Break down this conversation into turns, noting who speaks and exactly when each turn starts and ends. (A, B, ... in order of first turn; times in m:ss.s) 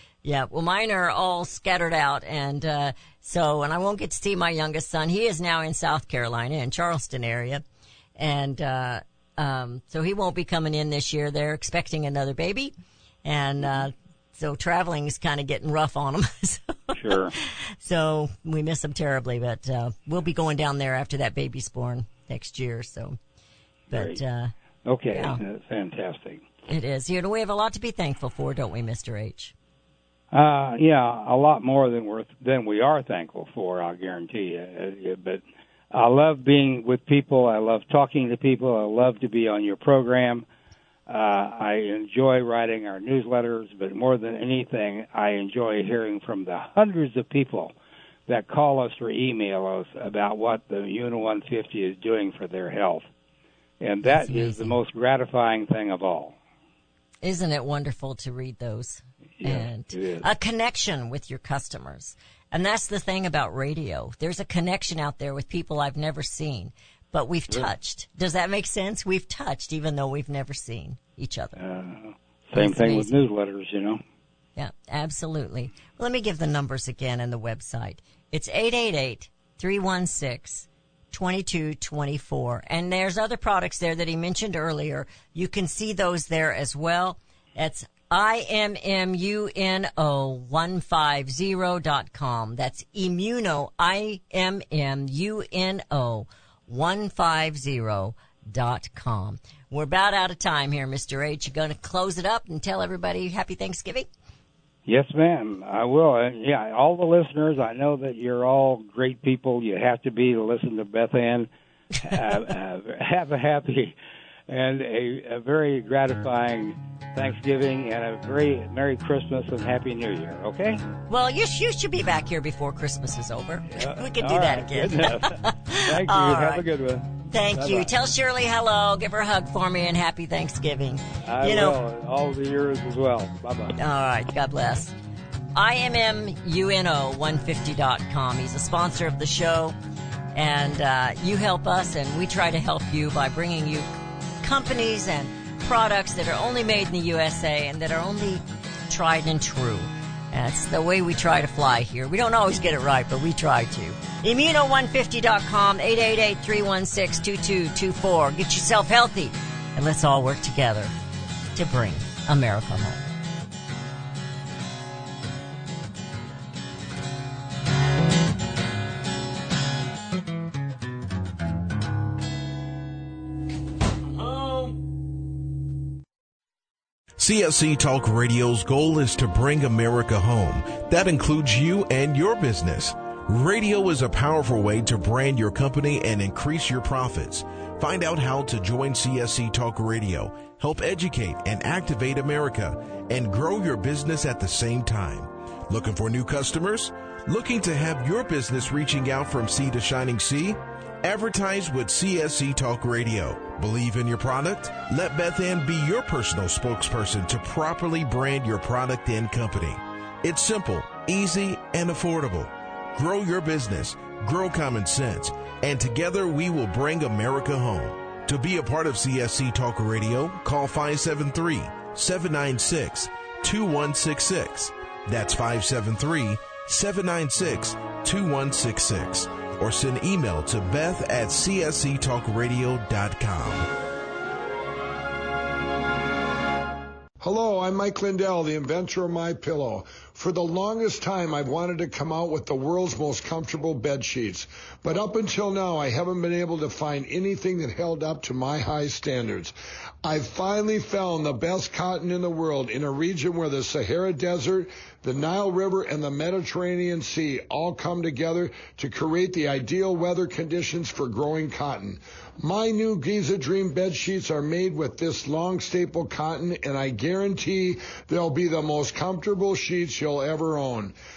0:00.2-0:07.6 A
0:08.2-0:12.7 A
0:13.2-0:17.1 A
0:16.9-0:17.3 B
0:17.8-0:23.2 A
0:23.9-0:24.2 B
0:23.9-0:24.5 A
0:24.8-0:26.4 B
0:25.1-0:25.4 A
0:26.7-0:29.5 A
0:30.3-0:35.4 B
0:35.9-0:40.4 B
0:41.1-0:47.7 B
0:48.3-0:53.0 B
0:53.8-0:56.4 B
0:54.0-0:54.8 A
0:57.2-1:11.6 A
0:59.4-1:00.2 B
1:11.6-1:14.0 B
1:12.6-1:13.1 A
1:14.6-1:44.1 A
1:44.9-1:54.0 B
1:54.5-2:00.8 B
2:01.1-2:06.6 A
2:03.7-2:07.9 B
2:07.3-2:11.8 A
2:11.2-2:13.8 B
2:13.8-2:14.9 A
2:15.5-2:19.8 A
2:20.3-2:23.9 A
2:24.4-2:40.9 A
2:41.5-2:43.0 A
2:57.2-3:53.7 C
3:57.2-4:30.9 D